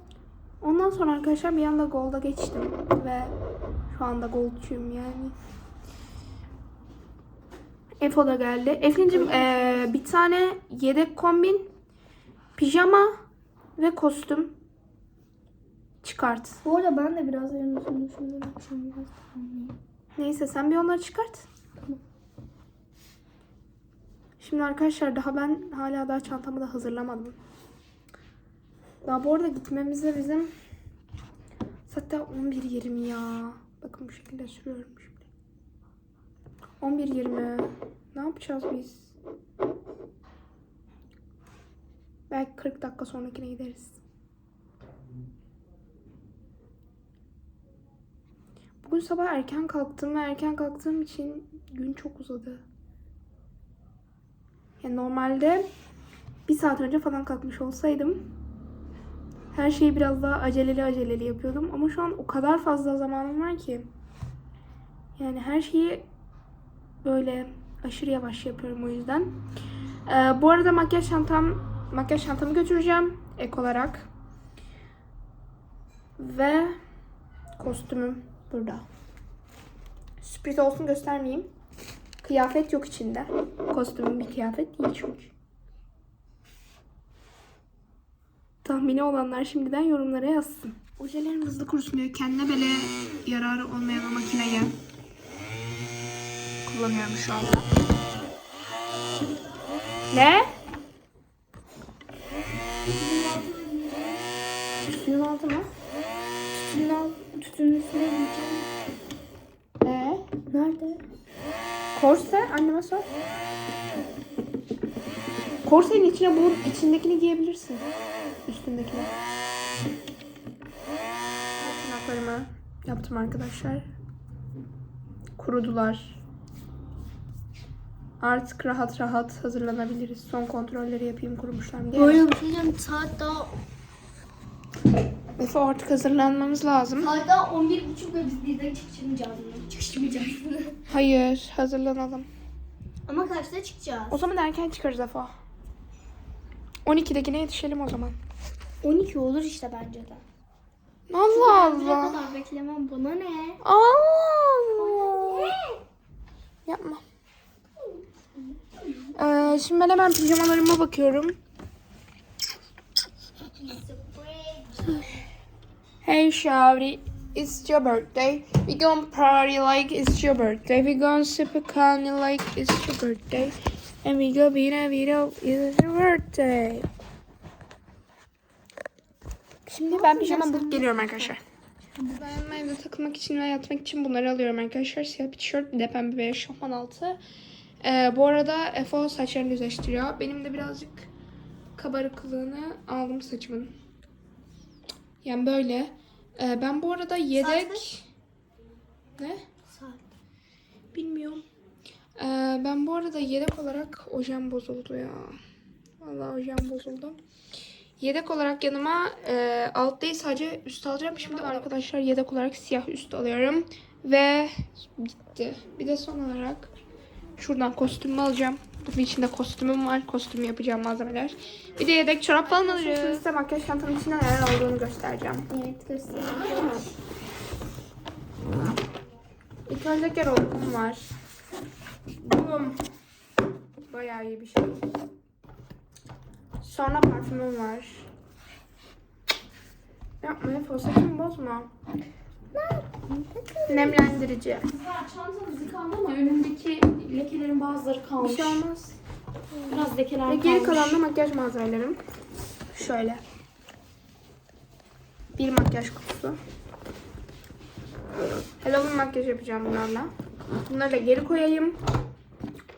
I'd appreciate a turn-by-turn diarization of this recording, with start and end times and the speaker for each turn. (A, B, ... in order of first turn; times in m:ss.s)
0:00.6-0:03.3 A
0:03.9-0:05.3 A
0:08.0-0:11.7 A
0:09.1-0:09.8 B
0:12.6-0:13.2 A
0:13.8-0:14.5 A
0:16.0-0:16.6 A
0:16.6-0:19.7 B
0:20.2-0:21.4 A
0:24.4-0:27.4 A
0:29.0-0:30.5 A
0:31.9-0:35.2 A
0:36.8-0:39.1 A
0:42.3-0:44.0 A
0:48.8-0:52.6 A
0:54.8-0:55.7 A
0:56.4-0:58.2 A
0:59.5-1:03.9 A
1:05.2-1:06.0 A
1:07.0-1:09.4 A
1:10.1-1:14.1 A
1:16.2-1:16.8 A
1:17.6-1:18.8 A
1:20.2-1:21.5 A
1:22.2-1:25.3 A
1:28.6-1:34.7 A
1:36.6-1:37.6 A
1:40.1-1:40.4 A
1:43.0-1:44.2 B
1:44.8-1:45.7 A
1:46.5-1:48.7 B
1:49.8-1:50.2 A
1:50.5-1:51.0 B
1:51.9-1:53.0 A
1:55.6-1:57.8 A
1:58.4-1:59.1 A
2:01.6-2:03.9 A
2:05.4-2:06.2 A
2:08.2-2:12.2 A
2:11.9-2:13.5 B
2:15.4-2:17.1 A
2:17.0-2:20.8 B
2:20.9-2:22.3 A
2:23.0-2:24.2 B
2:24.1-2:25.3 A
2:26.8-2:28.2 A
2:28.8-2:30.2 B
2:31.1-2:32.2 A
2:31.2-2:33.6 B
2:33.6-2:35.6 A
2:34.8-2:35.7 B
2:36.7-2:37.0 A
2:39.2-2:41.4 A
2:43.5-2:45.2 B
2:46.0-2:56.9 A
2:59.7-3:01.4 A
2:59.8-3:01.3 B
3:02.0-3:02.3 B
3:02.1-3:07.2 A
3:07.8-3:11.1 A
3:11.8-3:13.7 A
3:15.2-3:18.0 A
3:17.4-3:17.8 B
3:19.2-3:19.4 A
3:19.7-3:20.0 B
3:20.9-3:21.4 A
3:22.2-3:25.4 A
3:26.0-3:27.2 A
3:28.0-3:36.7 A
3:37.4-3:45.5 A
3:42.4-3:43.2 B
3:45.5-3:46.9 B
3:49.7-3:51.1 A
3:52.2-3:52.8 A
3:53.9-3:54.8 A
3:56.6-3:58.1 A
4:00.2-4:01.7 A
4:02.5-4:04.1 B
4:03.7-4:04.7 A
4:04.7-4:08.6 C
4:08.2-4:09.0 A
4:09.5-4:09.9 B
4:09.7-4:11.0 C
4:10.2-4:12.0 A
4:12.7-4:13.2 A
4:15.4-4:16.4 A
4:18.6-4:20.1 A
4:20.7-4:21.8 A